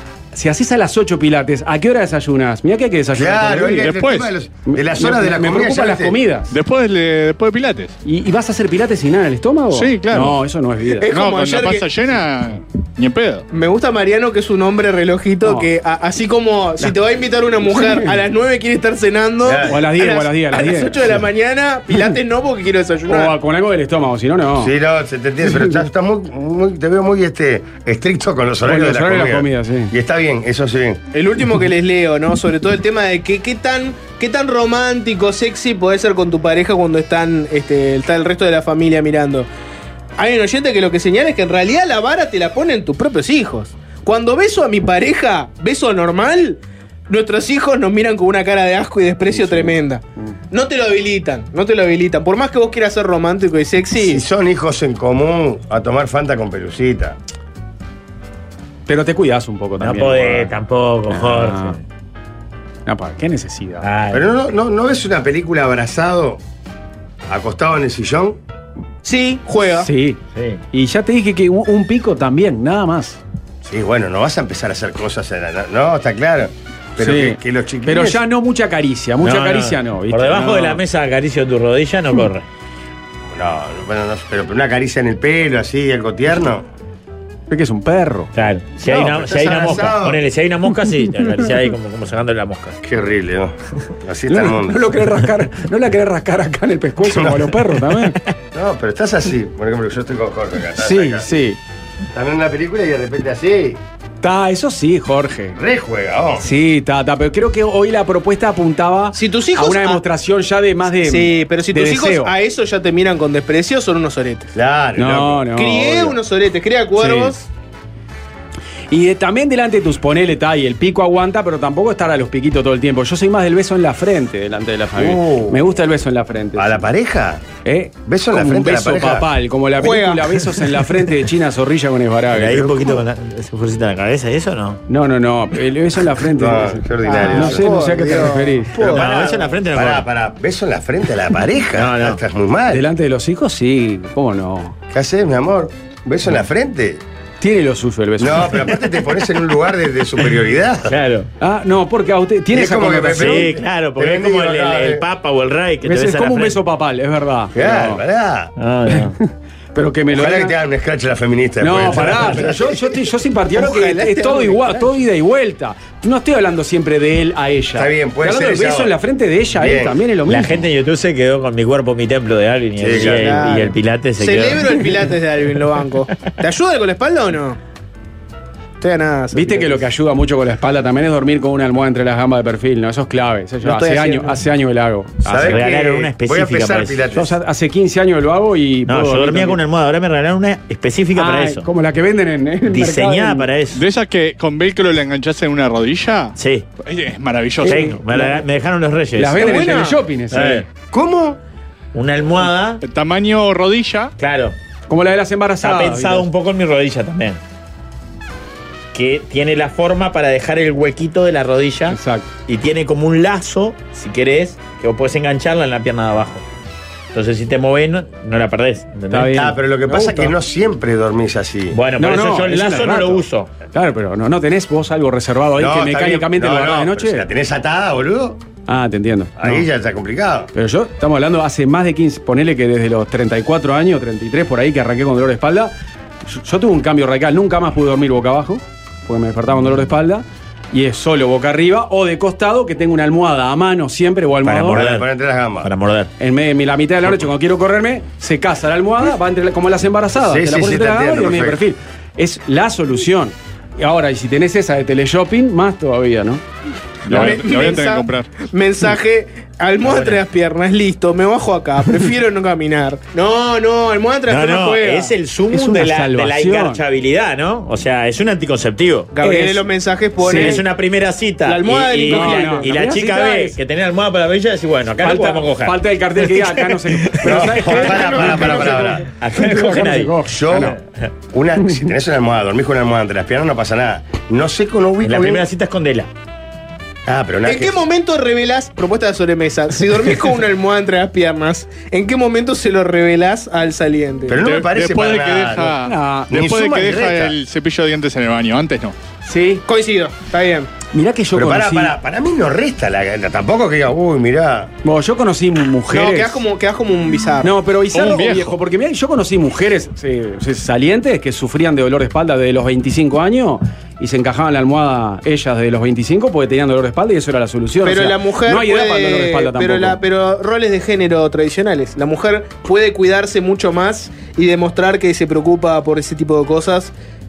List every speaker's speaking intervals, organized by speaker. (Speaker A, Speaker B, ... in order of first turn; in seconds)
Speaker A: 0.3-3.9, 4.7-6.5, 8.0-11.1, 15.4-15.7, 17.7-18.1, 19.6-21.0, 23.1-24.7, 28.6-29.9, 49.3-49.7, 58.9-60.5, 61.1-61.8, 62.9-63.9, 69.8-70.2, 70.7-73.2, 77.0-80.8, 87.5-88.3, 94.3-98.2, 100.8-101.6, 104.2-105.6, 106.4-112.3, 115.0-116.1, 117.0-117.3, 118.9-126.9, 127.6-132.9, 134.9-138.8, 142.7-144.7, 147.4-148.7, 151.4-153.5, 155.8-158.0, 159.7-160.5, 161.6-170.6, 179.3-185.6, 187.1-189.6, 191.1-193.5, 197.6-198.4, 199.2-200.6, 204.9-206.3, 211.9-212.3, 219.1-220.3, 222.0-227.2, 228.7-229.6, 230.5-235.7, 236.2-244.8, 246.2-256.4, 257.1-257.4, 265.5-266.8, 269.2-269.6, 270.2-270.6, 272.1-273.6, 275.0-280.8, 295.8-296.3, 299.2-299.6, 300.9-301.9, 304.8-306.4, 307.4-320.0
Speaker B: 3.1-6.2, 19.4-19.8, 24.6-31.0, 54.0-57.1, 64.1-66.4, 67.3-68.4, 73.6-78.2, 83.3-86.6, 88.8-90.2, 92.8-94.9, 98.5-101.3, 102.1-103.8, 105.5-106.4, 114.5-115.5, 125.0-125.6, 126.5-127.4, 128.1-129.3, 136.3-142.8, 144.9-147.0, 148.2-150.9, 152.5-155.0, 157.5-158.5, 160.1-162.8, 167.7-168.9, 169.5-170.0, 172.8-173.2, 185.2-187.3, 200.9-201.4, 219.3-221.8, 225.6-228.4, 229.4-230.5, 244.7-245.7, 250.2-251.6, 277.2-279.0, 280.2-280.7, 281.3-285.5, 287.1-287.8, 294.3-297.4, 301.3-304.7
Speaker C: 3.8-4.3, 6.5-7.9, 9.7-10.4, 11.1-13.5, 193.7-197.9, 202.8-204.1, 257.1-258.3, 294.4-298.9, 307.9-308.6
Speaker D: 11.0-11.9, 13.5-23.3, 31.1-39.5, 40.2-54.2, 69.0-69.9, 109.1-110.0, 111.0-114.5, 115.5-117.5, 129.8-130.4, 137.0-139.4, 163.5-164.9, 173.0-177.6, 178.8-179.8, 183.6-184.3, 199.4-200.0, 257.1-265.1, 269.1-270.6, 271.4-272.7, 278.0-278.7, 287.4-294.4, 299.6-300.7, 305.9-307.5, 317.8-326.9
Speaker E: 59.8-61.8, 63.8-64.3, 70.3-70.6, 79.2-82.5, 88.3-92.8, 132.3-134.8, 138.8-140.1, 141.7-142.2, 150.9-151.3, 153.2-156.6, 158.6-159.1, 170.3-175.1, 185.4-187.0, 188.9-191.7, 192.7-193.8, 196.4-196.7, 197.6-199.8, 200.3-200.7, 201.9-202.8, 204.2-204.5, 205.6-207.4, 208.9-216.4, 217.1-219.4, 221.7-223.5, 244.4-245.1, 245.6-246.1, 259.8-260.2, 264.3-269.1, 270.2-281.1, 285.0-286.1